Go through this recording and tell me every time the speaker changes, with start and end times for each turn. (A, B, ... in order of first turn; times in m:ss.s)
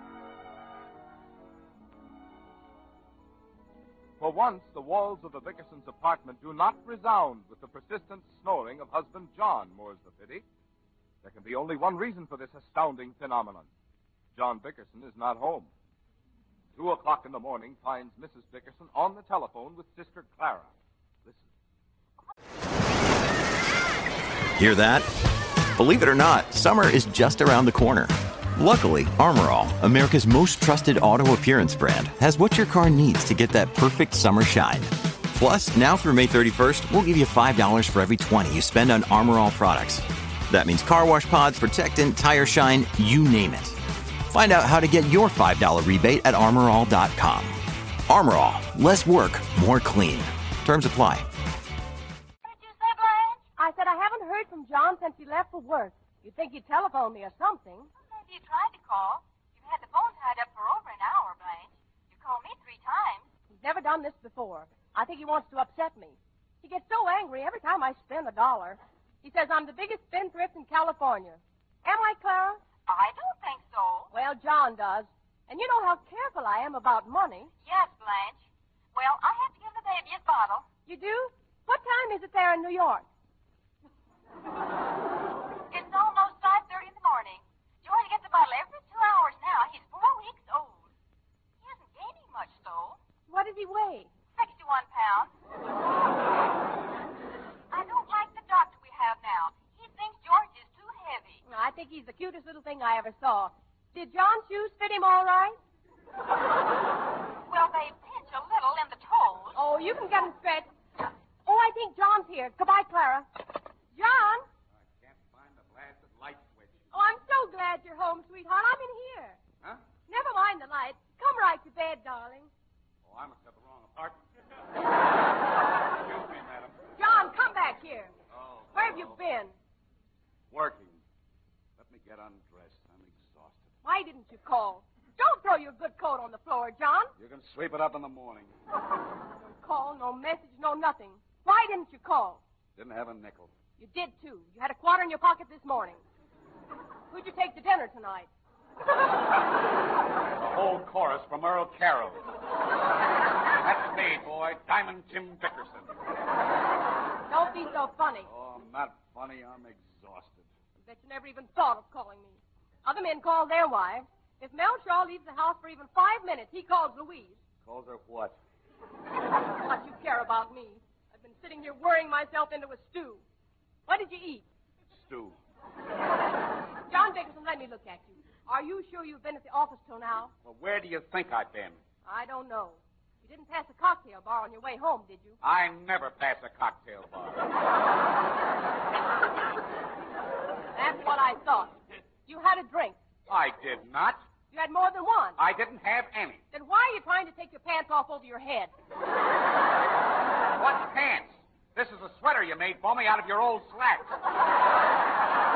0:04.2-0:10.4 A
0:11.2-0:13.7 A
0:14.4-0:15.7 A
0:16.8-0:20.7 A
0:24.6-0:25.1 B
0:25.8-0:51.3 B
0:52.4-0:53.4 C
0:53.6-0:57.9 D
0:58.1-1:03.2 C
1:03.5-1:12.6 D
1:12.9-1:14.1 C
1:14.1-1:17.5 D
1:17.6-1:18.4 C
1:19.0-1:20.6 C
1:20.9-1:23.1 D
1:25.7-1:30.8 C
1:31.6-1:33.0 C
1:33.3-1:34.1 D
1:34.4-1:35.3 C
1:37.7-1:41.4 C
1:41.4-1:45.6 D
1:47.5-1:49.6 C
1:49.6-1:50.7 D
1:51.4-1:53.3 D
1:53.9-1:54.4 D
1:54.7-1:56.8 E
1:56.9-1:59.4 D
2:00.1-2:02.5 D
2:03.0-2:04.2 E
2:05.9-2:06.8 E
2:07.0-2:08.1 D
2:08.3-2:09.2 E
2:08.7-2:09.5 D
2:10.5-2:11.0 E
2:11.8-2:13.6 E
2:13.8-2:17.1 D
2:17.2-2:18.5 E
2:19.4-2:22.4 D
2:22.8-2:23.5 E
2:23.8-2:26.0 D
2:27.1-2:28.3 D
2:30.4-2:32.2 E
2:33.6-2:36.0 E
2:37.3-2:38.3 D
2:38.3-2:40.5 E
2:40.8-2:47.4 D
2:47.6-2:48.4 E
2:49.6-2:53.2 D
2:53.9-2:54.4 D
2:54.9-2:55.4 E
2:56.9-3:00.3 D
3:00.4-3:01.8 E
3:02.0-3:05.4 D
3:05.4-3:07.5 E
3:10.7-3:13.0 D
3:13.3-3:14.2 E
3:14.5-3:15.4 D
3:15.4-3:16.4 E
3:16.5-3:18.7 D
3:20.6-3:24.2 E